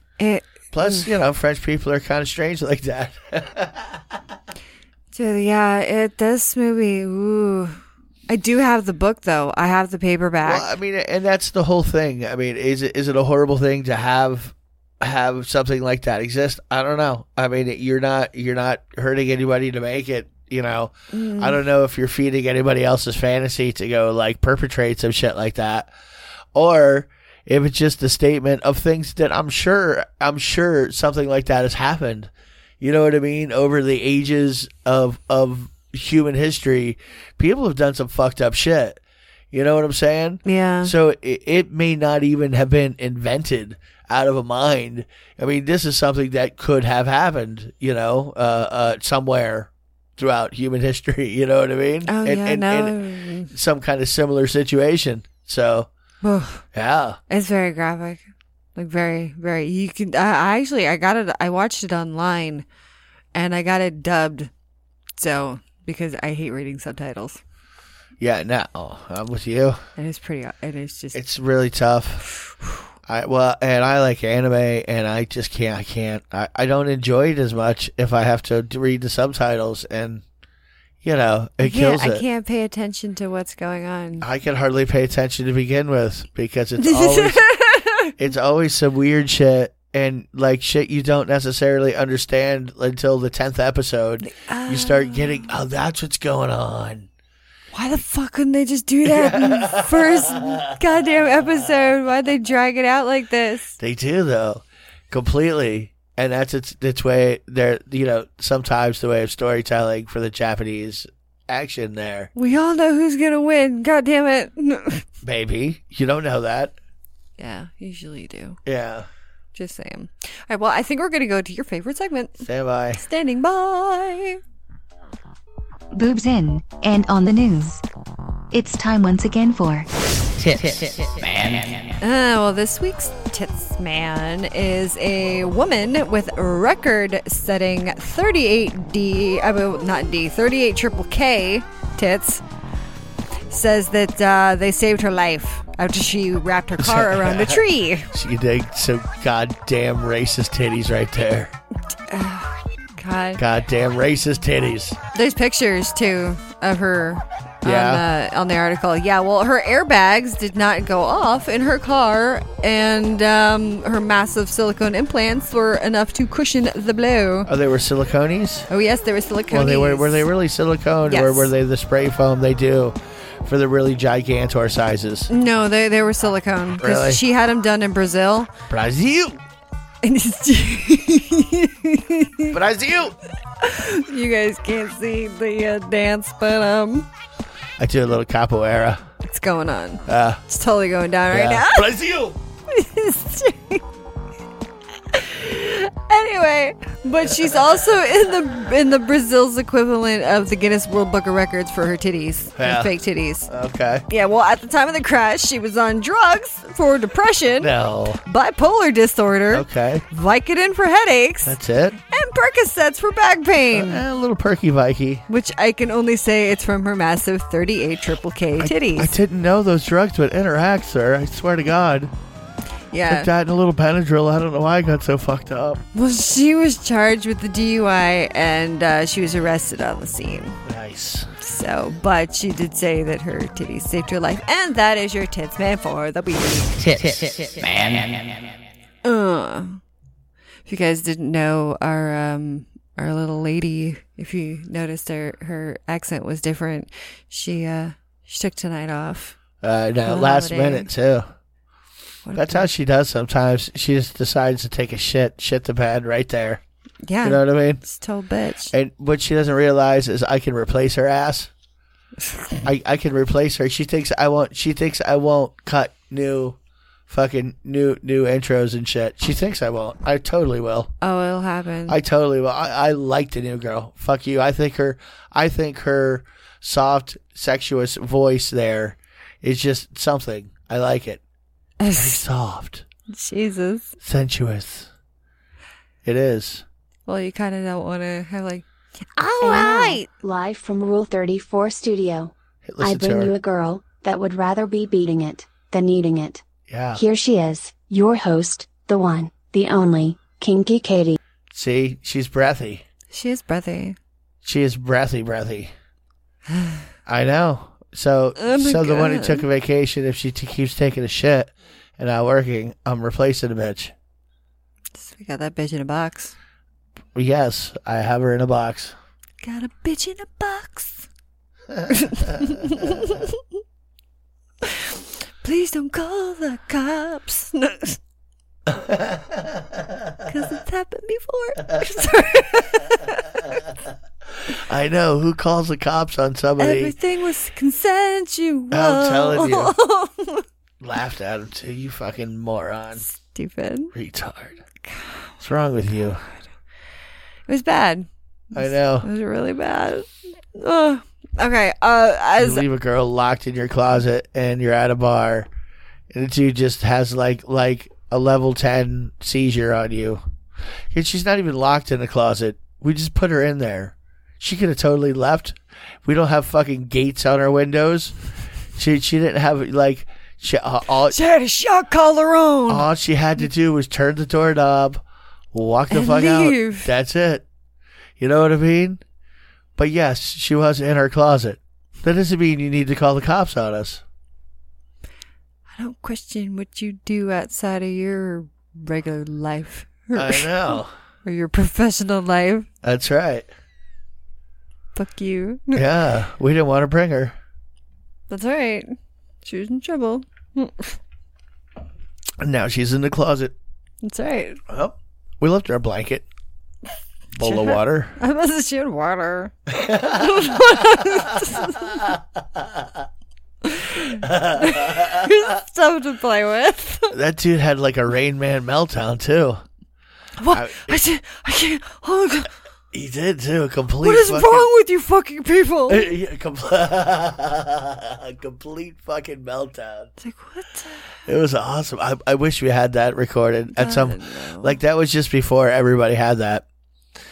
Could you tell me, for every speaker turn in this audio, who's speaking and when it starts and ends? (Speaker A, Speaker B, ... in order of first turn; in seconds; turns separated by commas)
Speaker A: 0.2-1.1, Speaker B: 0.7-4.2, Speaker A: 5.1-10.7, Speaker B: 10.4-25.9, Speaker A: 21.1-21.6, Speaker B: 26.5-39.0, Speaker B: 39.5-53.0, Speaker A: 40.4-40.9, Speaker A: 52.1-53.5, Speaker B: 53.5-55.9, Speaker A: 56.2-56.6, Speaker B: 56.7-57.2, Speaker A: 57.3-58.2, Speaker A: 58.8-62.6, Speaker A: 63.3-64.5, Speaker A: 65.2-67.4, Speaker B: 68.2-69.8, Speaker A: 70.0-71.2, Speaker B: 71.1-72.2, Speaker B: 73.1-80.2, Speaker B: 81.0-82.2, Speaker A: 81.6-84.3, Speaker B: 84.2-87.4, Speaker A: 86.8-88.1, Speaker B: 88.2-97.1, Speaker A: 94.2-95.5, Speaker A: 97.7-103.8, Speaker B: 99.0-100.8, Speaker B: 103.8-112.3, Speaker A: 112.3-115.0, Speaker B: 115.2-116.8, Speaker A: 117.4-118.6, Speaker B: 118.7-119.1, Speaker A: 119.5-124.4, Speaker B: 122.4-123.0, Speaker C: 125.9-127.8, Speaker C: 128.5-129.9, Speaker B: 130.4-131.8, Speaker A: 132.0-142.4, Speaker A: 143.5-148.1, Speaker B: 146.8-151.5, Speaker A: 152.1-153.4, Speaker B: 153.4-155.0, Speaker A: 155.1-167.5, Speaker B: 157.6-158.0, Speaker B: 167.5-168.7, Speaker A: 168.7-170.3, Speaker B: 169.5-175.3, Speaker A: 171.1-171.5, Speaker A: 175.3-178.5, Speaker B: 176.8-177.2, Speaker B: 178.7-179.4, Speaker A: 180.0-182.6, Speaker B: 182.5-183.2, Speaker A: 183.6-187.1, Speaker B: 187.8-189.0, Speaker A: 189.2-191.9, Speaker B: 190.1-190.4, Speaker B: 191.3-192.4, Speaker A: 192.7-193.8, Speaker A: 195.1-203.5, Speaker B: 197.2-197.8, Speaker B: 202.6-202.9, Speaker B: 203.5-204.0, Speaker A: 204.1-207.7, Speaker B: 207.6-208.2, Speaker A: 208.2-211.6, Speaker B: 209.5-210.0, Speaker B: 211.4-212.0, Speaker A: 212.1-214.0, Speaker B: 213.7-215.2, Speaker A: 215.3-219.1, Speaker B: 218.6-222.1, Speaker A: 222.9-223.3, Speaker B: 223.1-225.8, Speaker A: 225.9-230.6, Speaker B: 230.7-231.3, Speaker A: 231.4-236.8, Speaker B: 236.8-238.4, Speaker A: 239.0-239.8, Speaker A: 240.7-249.3, Speaker B: 249.6-251.3, Speaker A: 250.1-250.9, Speaker A: 252.2-252.7, Speaker B: 252.3-256.6, Speaker A: 257.1-258.7, Speaker B: 257.2-257.8, Speaker B: 258.7-261.5, Speaker B: 262.6-266.6, Speaker B: 267.1-270.9, Speaker A: 271.0-272.0, Speaker B: 271.9-281.2, Speaker A: 281.8-282.2, Speaker B: 281.9-282.9, Speaker A: 283.1-283.9, Speaker B: 284.0-284.9, Speaker B: 286.0-286.6, Speaker A: 287.1-288.6, Speaker A: 289.2-290.1, Speaker D: 289.4-301.2, Speaker B: 292.6-293.3, Speaker B: 296.7-297.0, Speaker B: 301.5-302.8, Speaker A: 303.1-304.0, Speaker B: 304.4-305.7, Speaker A: 306.5-306.9, Speaker B: 307.1-313.9, Speaker A: 308.4-309.4, Speaker A: 314.9-316.3, Speaker B: 317.1-318.9, Speaker A: 319.4-321.1, Speaker B: 321.7-322.3, Speaker A: 321.9-323.4, Speaker A: 324.6-328.0, Speaker B: 328.7-330.2, Speaker A: 330.2-333.4, Speaker B: 334.5-336.9, Speaker A: 336.6-340.4, Speaker B: 338.7-339.7, Speaker B: 340.8-343.1, Speaker A: 343.0-343.9, Speaker B: 343.9-344.6, Speaker A: 344.8-345.3, Speaker B: 345.4-346.2, Speaker A: 347.5-352.6, Speaker B: 348.5-349.1, Speaker B: 352.4-355.5, Speaker B: 356.1-360.2, Speaker B: 360.9-368.1, Speaker B: 368.7-371.2, Speaker A: 371.1-372.9, Speaker B: 372.7-375.0, Speaker B: 375.5-377.4, Speaker A: 375.9-376.9, Speaker B: 378.2-379.0, Speaker B: 379.8-384.0, Speaker A: 385.7-392.7, Speaker B: 390.1-390.9, Speaker B: 392.8-393.4, Speaker A: 394.9-395.8, Speaker B: 395.7-397.4, Speaker A: 398.3-401.0, Speaker B: 402.4-403.5, Speaker A: 404.0-404.6, Speaker B: 404.7-406.2, Speaker B: 407.4-408.2, Speaker A: 407.4-409.5, Speaker B: 409.7-413.0, Speaker A: 410.1-412.0, Speaker A: 413.6-417.1, Speaker B: 414.2-415.3, Speaker B: 417.1-419.6, Speaker A: 420.4-422.5, Speaker B: 420.5-421.0, Speaker B: 422.9-424.7, Speaker A: 424.0-426.1, Speaker B: 425.9-430.1, Speaker A: 430.2-431.1, Speaker B: 431.2-436.6, Speaker A: 433.7-434.8